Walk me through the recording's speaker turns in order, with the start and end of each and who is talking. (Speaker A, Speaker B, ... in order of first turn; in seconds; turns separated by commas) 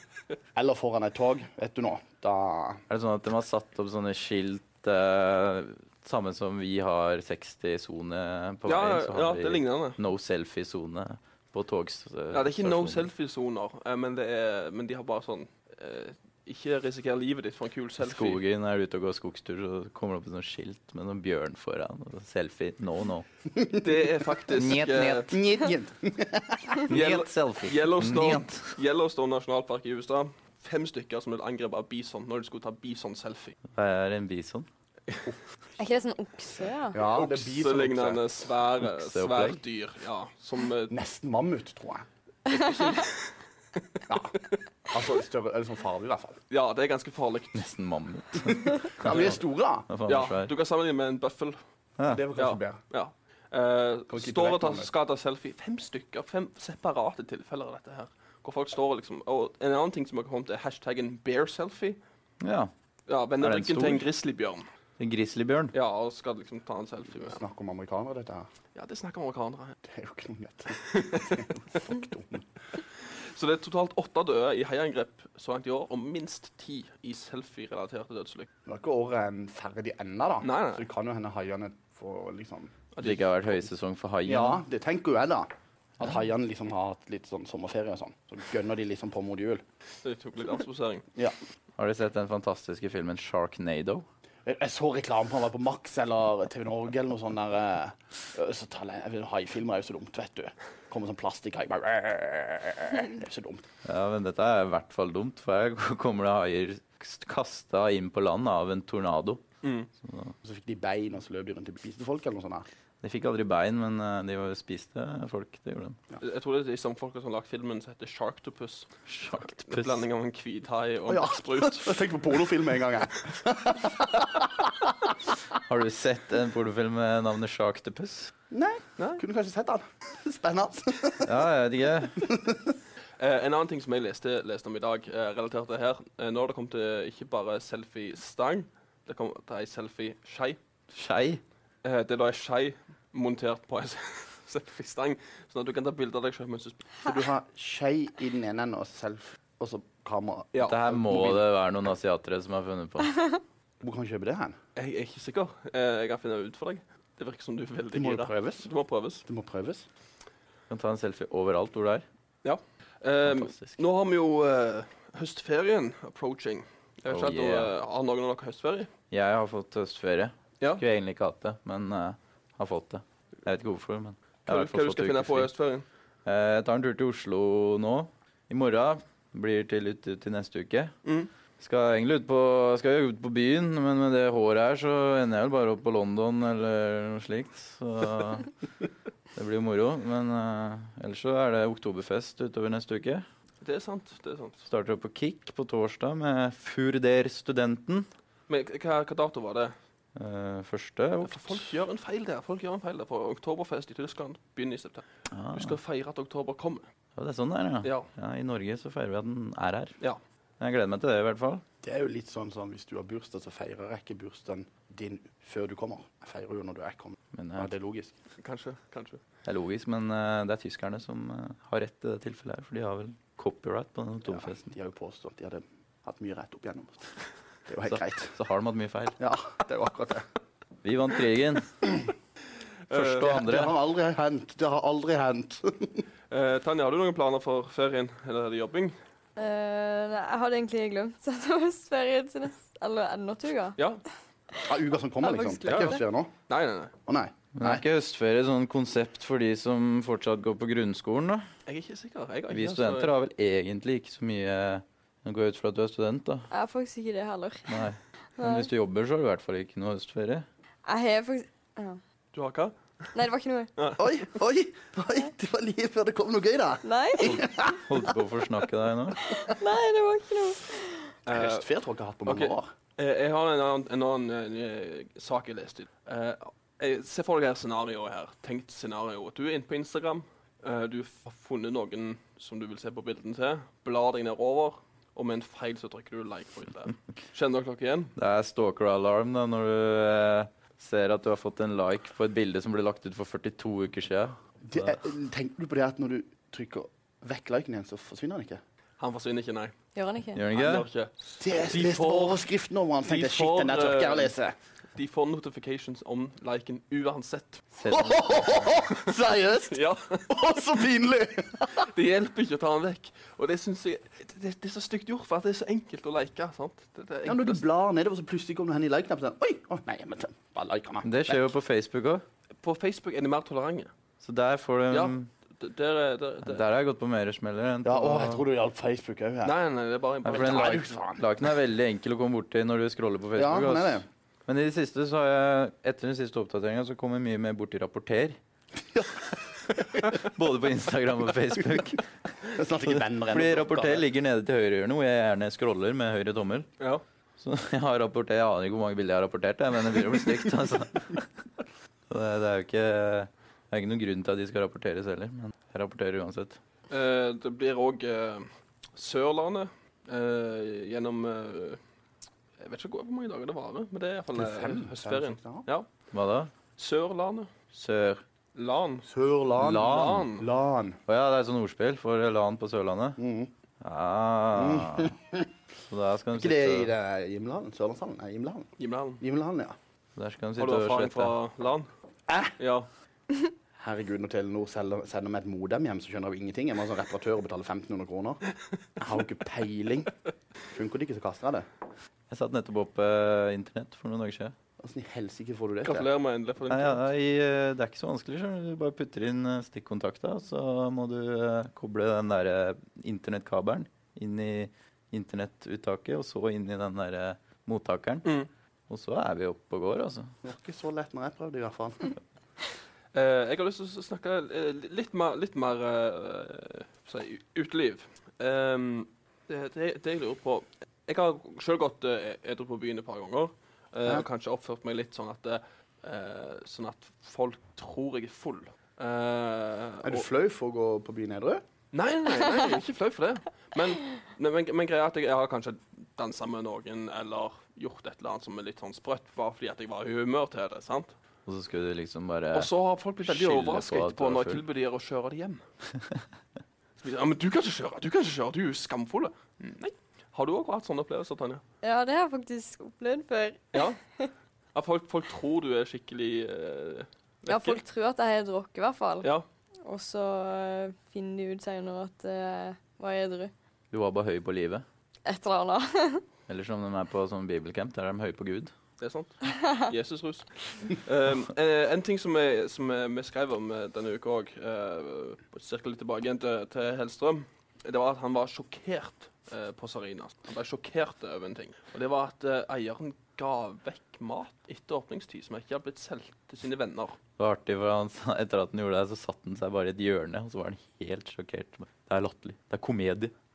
Speaker A: 0.5-2.8, Speaker B: 2.9-13.1, Speaker C: 8.7-10.0, Speaker C: 12.3-18.4, Speaker B: 18.0-23.3, Speaker C: 23.8-25.3, Speaker B: 24.5-25.4, Speaker A: 25.3-26.9, Speaker B: 26.9-28.7, Speaker C: 26.9-33.5, Speaker B: 33.7-34.7, Speaker D: 35.8-37.0, Speaker A: 36.9-38.2, Speaker C: 37.0-40.9, Speaker B: 38.8-39.6, Speaker A: 40.9-42.0, Speaker C: 42.5-43.3, Speaker A: 44.1-46.4, Speaker C: 46.5-47.6, Speaker B: 47.5-49.2, Speaker A: 48.8-49.9, Speaker C: 49.0-49.4, Speaker B: 49.9-50.5, Speaker C: 50.1-51.6, Speaker B: 52.0-52.2, Speaker A: 52.1-52.8, Speaker C: 52.4-62.0, Speaker A: 54.1-54.9, Speaker B: 62.4-62.7, Speaker C: 63.1-64.7, Speaker B: 63.4-64.0, Speaker B: 65.0-65.7, Speaker C: 65.7-67.4, Speaker A: 67.1-68.5, Speaker C: 68.7-69.8, Speaker A: 69.8-72.5, Speaker C: 70.9-71.5, Speaker C: 73.3-78.5, Speaker A: 78.7-82.9, Speaker C: 80.4-80.8, Speaker C: 82.9-83.2, Speaker B: 83.0-84.6, Speaker A: 84.2-89.6, Speaker C: 90.0-91.0, Speaker B: 91.8-94.0, Speaker A: 94.4-103.7, Speaker B: 103.8-109.4, Speaker C: 109.6-109.9, Speaker B: 110.0-110.3, Speaker A: 110.4-112.7, Speaker B: 113.0-116.0, Speaker C: 116.2-122.1, Speaker B: 119.1-120.0, Speaker A: 121.1-124.9, Speaker B: 125.7-128.3, Speaker A: 128.5-131.4, Speaker B: 131.2-132.2, Speaker A: 132.2-132.8, Speaker C: 133.2-140.6, Speaker B: 140.9-141.4, Speaker C: 141.8-146.8, Speaker A: 147.0-151.4, Speaker C: 150.5-150.8, Speaker B: 150.6-153.2, Speaker A: 153.8-154.6, Speaker C: 154.8-159.2, Speaker A: 157.9-158.7, Speaker A: 159.3-159.9, Speaker B: 160.7-162.0, Speaker C: 162.4-168.9, Speaker B: 163.2-163.8, Speaker B: 167.1-167.7, Speaker B: 169.1-175.5, Speaker C: 174.5-175.8, Speaker B: 176.2-180.9, Speaker B: 181.6-188.5, Speaker B: 189.3-193.2, Speaker C: 193.6-194.6, Speaker B: 194.7-198.1, Speaker C: 198.5-199.7, Speaker B: 200.2-201.7, Speaker C: 201.2-206.8, Speaker B: 205.3-205.8, Speaker B: 207.2-209.9, Speaker B: 210.6-211.6, Speaker A: 211.8-218.1, Speaker B: 217.3-217.7, Speaker C: 218.4-219.2, Speaker B: 219.4-224.7, Speaker A: 224.2-227.1, Speaker A: 227.7-228.3, Speaker B: 227.9-229.2, Speaker A: 229.2-230.2, Speaker B: 230.8-231.9, Speaker C: 232.9-233.3, Speaker B: 232.9-233.7, Speaker A: 233.2-236.0, Speaker C: 236.3-238.9, Speaker D: 239.4-243.8, Speaker C: 243.8-244.0, Speaker A: 244.6-246.3, Speaker D: 245.2-246.0, Speaker C: 245.7-246.9, Speaker A: 247.1-247.8, Speaker B: 247.6-251.4, Speaker C: 251.7-253.1, Speaker B: 252.5-256.5, Speaker D: 256.5-257.7, Speaker B: 257.7-260.4, Speaker D: 258.4-258.7, Speaker D: 260.9-262.0, Speaker C: 262.3-262.7, Speaker D: 263.1-263.7, Speaker C: 263.8-264.0, Speaker A: 264.0-268.1, Speaker D: 266.8-267.4, Speaker B: 267.2-269.2, Speaker D: 269.2-271.1, Speaker C: 271.2-271.6, Speaker A: 271.3-272.7, Speaker C: 272.2-288.1, Speaker B: 288.1-294.9, Speaker A: 294.6-298.6, Speaker C: 299.0-299.7, Speaker D: 299.9-300.4, Speaker B: 300.4-300.9, Speaker C: 300.5-302.4, Speaker A: 301.4-304.5, Speaker C: 303.1-304.3, Speaker C: 304.9-307.6, Speaker B: 307.8-308.7, Speaker A: 307.9-311.9, Speaker C: 309.7-310.2, Speaker C: 311.9-317.6, Speaker A: 317.2-321.5, Speaker B: 321.0-322.2, Speaker C: 322.6-323.9, Speaker B: 324.2-325.3, Speaker C: 324.9-326.6, Speaker B: 326.4-328.4, Speaker A: 327.8-329.6, Speaker C: 329.4-330.9, Speaker B: 330.2-338.4, Speaker A: 330.3-331.2, Speaker A: 333.4-334.1, Speaker A: 338.9-340.0, Speaker B: 340.0-342.1, Speaker A: 342.5-344.1, Speaker B: 342.9-346.7, Speaker B: 347.4-351.3, Speaker B: 352.1-356.6, Speaker C: 356.9-361.8, Speaker C: 362.6-365.9, Speaker A: 364.3-365.6, Speaker B: 366.1-366.5, Speaker C: 366.8-367.5, Speaker B: 367.7-368.2, Speaker C: 368.5-369.1, Speaker A: 369.1-371.0, Speaker B: 369.6-370.3, Speaker C: 369.7-370.5, Speaker B: 371.1-373.2, Speaker A: 373.2-373.5, Speaker B: 373.8-375.1, Speaker A: 374.5-375.5, Speaker B: 375.9-376.9, Speaker A: 376.3-379.8, Speaker C: 378.8-379.2, Speaker B: 380.1-381.3, Speaker C: 380.6-381.9, Speaker A: 382.3-382.5, Speaker C: 382.6-382.9, Speaker A: 383.8-388.4, Speaker A: 389.0-390.1, Speaker A: 390.7-391.6, Speaker B: 392.3-394.5, Speaker A: 394.8-396.1, Speaker C: 395.9-397.0, Speaker B: 396.7-408.3, Speaker C: 408.2-408.5, Speaker B: 408.9-410.3, Speaker A: 410.4-412.1, Speaker C: 413.1-430.3, Speaker A: 430.0-431.6, Speaker C: 431.9-441.1, Speaker B: 441.4-442.7, Speaker C: 442.5-445.6, Speaker B: 443.2-444.6, Speaker C: 447.0-451.6, Speaker D: 451.8-454.3, Speaker C: 454.7-457.8, Speaker D: 457.5-459.3, Speaker D: 459.8-463.5, Speaker B: 463.9-464.8, Speaker D: 465.3-466.2, Speaker B: 466.5-468.7, Speaker C: 469.0-487.1, Speaker B: 487.4-493.3